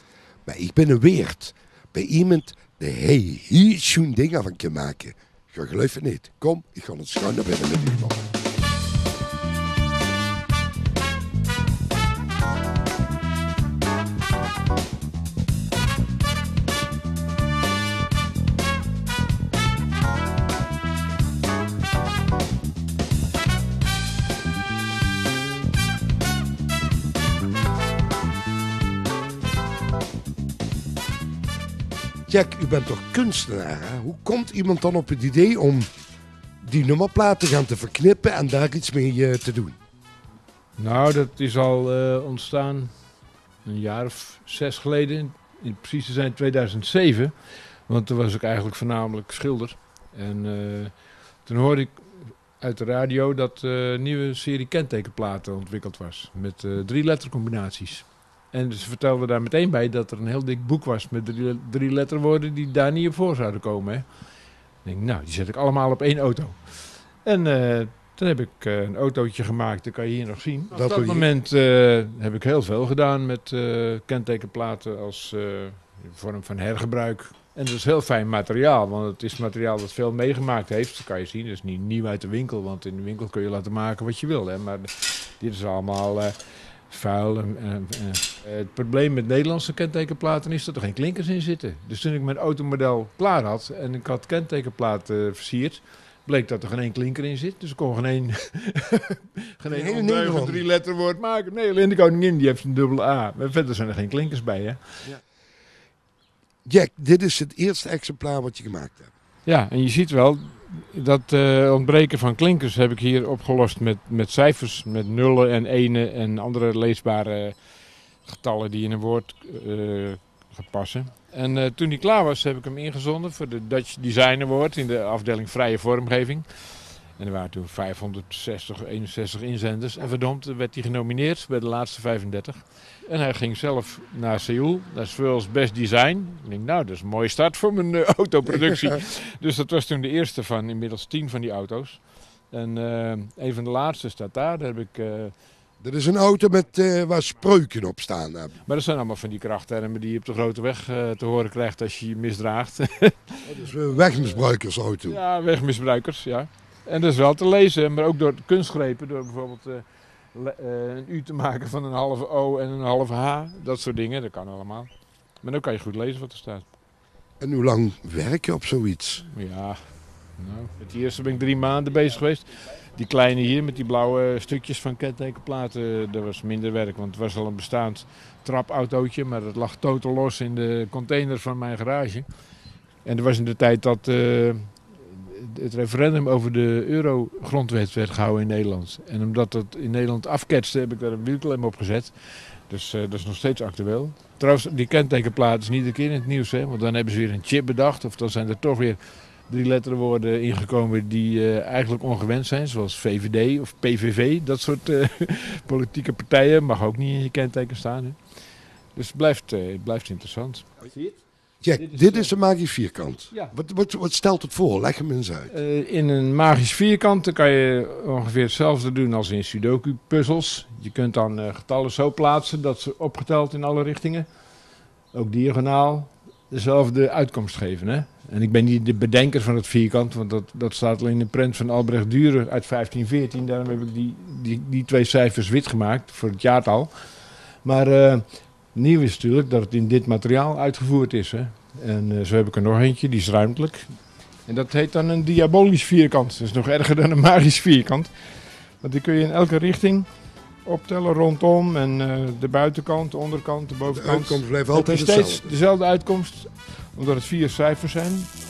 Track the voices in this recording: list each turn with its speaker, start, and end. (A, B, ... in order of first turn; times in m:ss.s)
0:00.5-0:08.2 A
0:32.3-0:35.9 A
0:36.6-0:39.8 A
0:40.8-0:42.9 B
0:43.6-0:47.3 B
0:47.9-1:04.0 B
1:04.8-1:26.4 B
1:10.7-1:11.3 A
1:26.9-1:44.8 B
1:39.7-1:40.6 A
1:46.7-1:49.1 A
1:49.5-1:57.6 B
1:58.2-2:25.3 B
2:25.8-2:28.6 A
2:28.7-2:33.6 B
2:33.4-2:35.2 A
2:35.0-2:44.9 B
2:45.4-2:46.7 B
2:47.4-2:49.2 A
2:49.3-3:02.3 B
3:03.0-3:28.2 B
3:29.0-3:31.2 B
3:31.6-3:35.5 A
3:31.8-3:32.3 B
3:35.5-3:44.3 B
3:45.1-3:57.0 B
3:57.6-4:03.8 B
4:04.5-4:08.1 B
4:08.8-4:10.1 B
4:10.6-4:18.3 B
4:13.8-4:15.6 A